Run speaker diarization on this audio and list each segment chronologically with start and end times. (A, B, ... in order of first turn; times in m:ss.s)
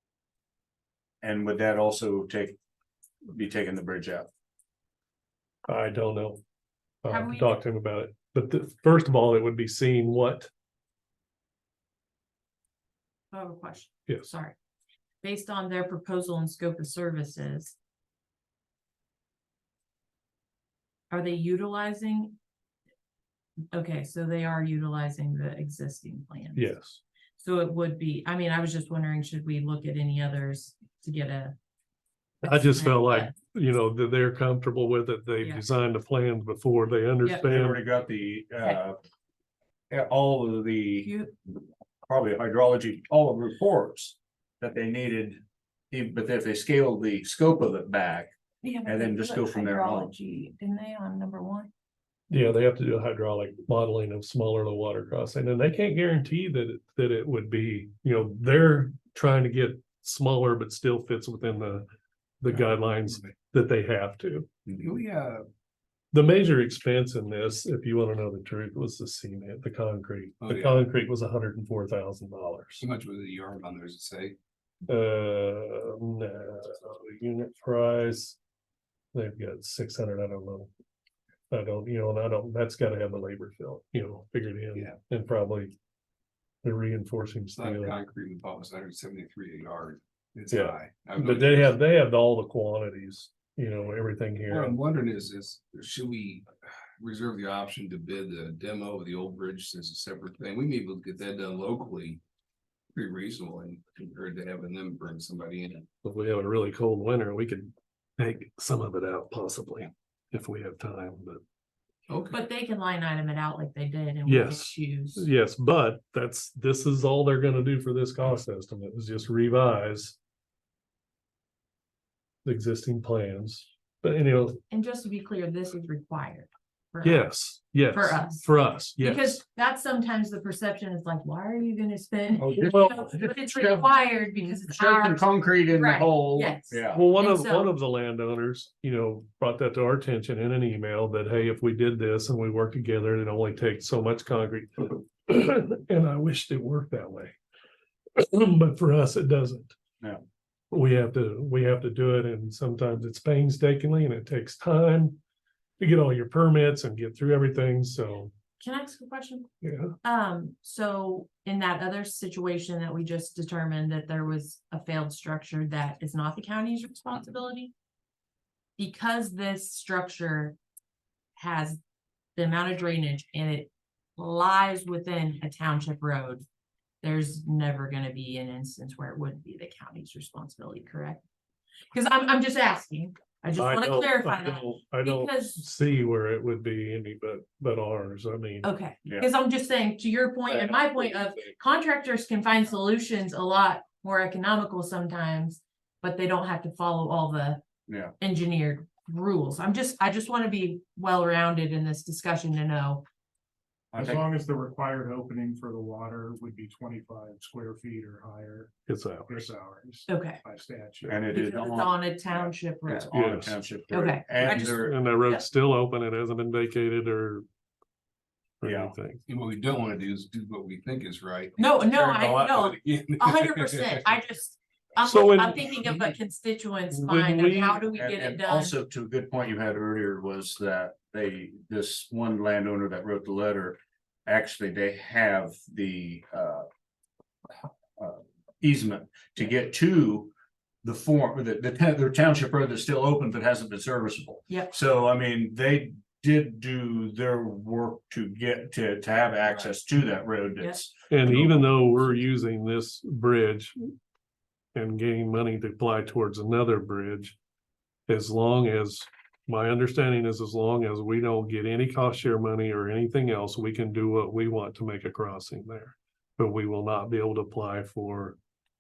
0:01.2-0:02.6 A
0:03.3-0:04.3 A
0:05.7-0:06.4 B
0:07.0-0:10.5 B
0:07.1-0:07.5 C
0:13.3-0:14.6 C
0:15.2-0:17.8 C
0:21.1-0:22.4 C
0:23.7-0:26.8 C
0:26.6-0:27.0 B
0:27.4-0:31.6 C
0:32.4-0:33.3 C
0:32.4-0:37.8 B
0:37.4-0:39.0 A
0:39.9-0:41.1 A
0:41.0-0:41.3 C
0:42.1-0:48.3 A
0:48.6-0:51.7 C
0:48.9-0:50.1 A
0:52.3-1:01.9 B
1:02.4-1:04.5 B
1:04.7-1:05.4 D
1:06.1-1:12.8 B
1:10.4-1:10.8 D
1:12.8-1:14.4 D
1:14.9-1:18.4 B
1:19.1-1:20.7 B
1:21.5-1:25.8 B
1:26.6-1:27.9 B
1:27.5-1:31.7 D
1:30.5-1:34.8 B
1:34.5-1:42.2 D
1:42.9-1:45.9 D
1:46.0-1:51.4 B
1:52.1-1:52.4 D
1:52.3-1:55.3 C
1:54.3-2:00.2 B
2:02.4-2:04.6 B
2:04.7-2:07.3 C
2:07.0-2:09.4 B
2:07.9-2:17.8 C
2:12.4-2:17.0 A
2:12.6-2:12.9 B
2:16.9-2:27.4 B
2:28.2-2:29.8 B
2:30.7-2:35.2 B
2:35.8-2:38.3 B
2:38.6-2:39.5 C
2:39.6-2:40.0 B
2:40.0-2:47.7 C
2:48.8-2:50.6 C
2:51.4-2:51.8 C
2:52.4-2:56.4 C
2:57.0-3:01.2 C
3:01.9-3:05.6 C
3:03.6-3:08.7 B
3:08.6-3:17.6 C
3:17.9-3:18.1 A
3:18.2-3:23.0 C
3:23.9-3:24.2 A
3:24.0-3:28.7 E
3:28.9-3:29.5 B
3:29.3-3:31.3 E
3:30.1-3:30.4 C
3:31.1-3:35.0 A
3:31.3-3:35.4 C
3:33.1-3:33.6 B
3:34.4-3:37.4 B
3:38.6-3:39.2 B
3:38.6-3:38.9 A
3:39.3-3:44.2 D
3:41.6-3:48.7 C
3:45.0-3:45.7 B
3:46.9-3:47.8 B
3:48.0-3:56.7 A
3:58.0-4:00.3 A
4:00.8-4:11.7 A
4:11.1-4:13.8 B
4:14.8-4:17.4 B
4:18.1-4:28.4 B